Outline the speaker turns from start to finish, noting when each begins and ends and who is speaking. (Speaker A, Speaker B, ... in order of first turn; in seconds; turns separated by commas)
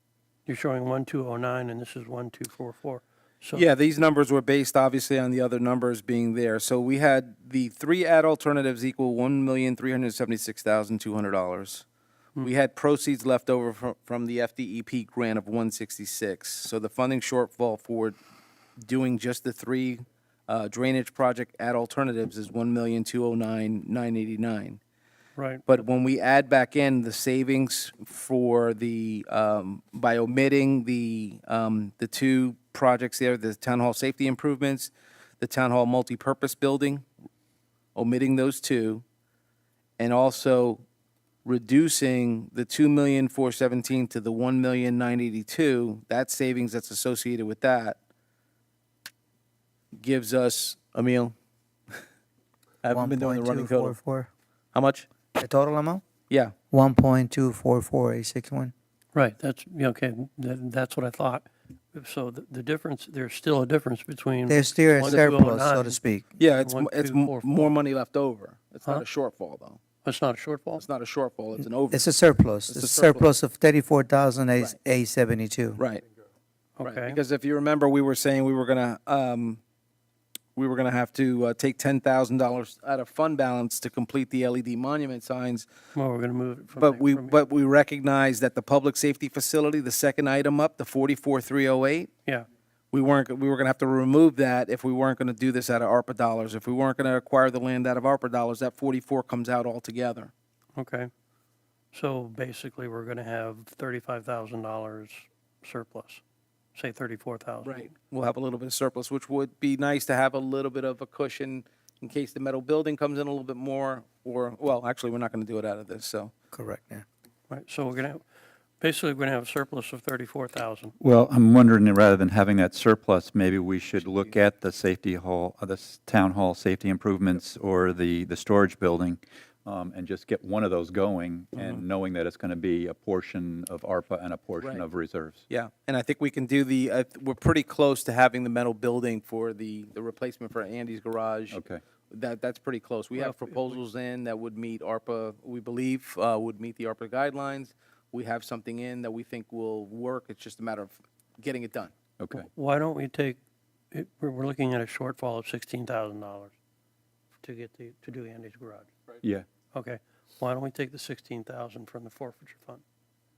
Speaker A: 0.5-3.6, Speaker B: 3.5-11.8, Speaker B: 12.4-18.2, Speaker B: 18.8-24.8, Speaker A: 25.4-25.6, Speaker B: 25.7-37.1, Speaker B: 37.9-39.0, Speaker B: 40.0-40.8, Speaker B: 41.4-48.0, Speaker B: 50.0-51.3, Speaker B: 52.8-54.0, Speaker C: 52.9-54.3, Speaker B: 54.7-55.1, Speaker C: 55.4-56.0, Speaker B: 56.3-56.5, Speaker C: 56.7-58.7, Speaker A: 59.1-66.0, Speaker C: 64.5-66.3, Speaker B: 66.4-69.8, Speaker A: 66.6-67.7, Speaker A: 70.0-70.8, Speaker B: 70.8-72.1, Speaker C: 71.9-75.8, Speaker B: 72.7-73.2, Speaker B: 75.8-76.0, Speaker A: 76.8-77.2, Speaker B: 76.8-79.6, Speaker B: 80.5-85.7, Speaker A: 85.9-87.4, Speaker B: 86.8-92.1, Speaker B: 92.9-100.3, Speaker A: 100.8-101.1, Speaker A: 101.9-106.2, Speaker A: 106.7-107.9, Speaker B: 107.6-116.3, Speaker C: 116.5-117.0, Speaker A: 117.5-118.2, Speaker A: 118.8-121.0, Speaker D: 121.0-135.4, Speaker B: 131.5-131.8, Speaker B: 135.5-151.9, Speaker D: 141.5-141.8, Speaker A: 143.2-143.8, Speaker D: 152.2-152.5, Speaker A: 152.3-153.4, Speaker A: 153.9-156.5, Speaker A: 157.4-158.9, Speaker A: 159.7-162.8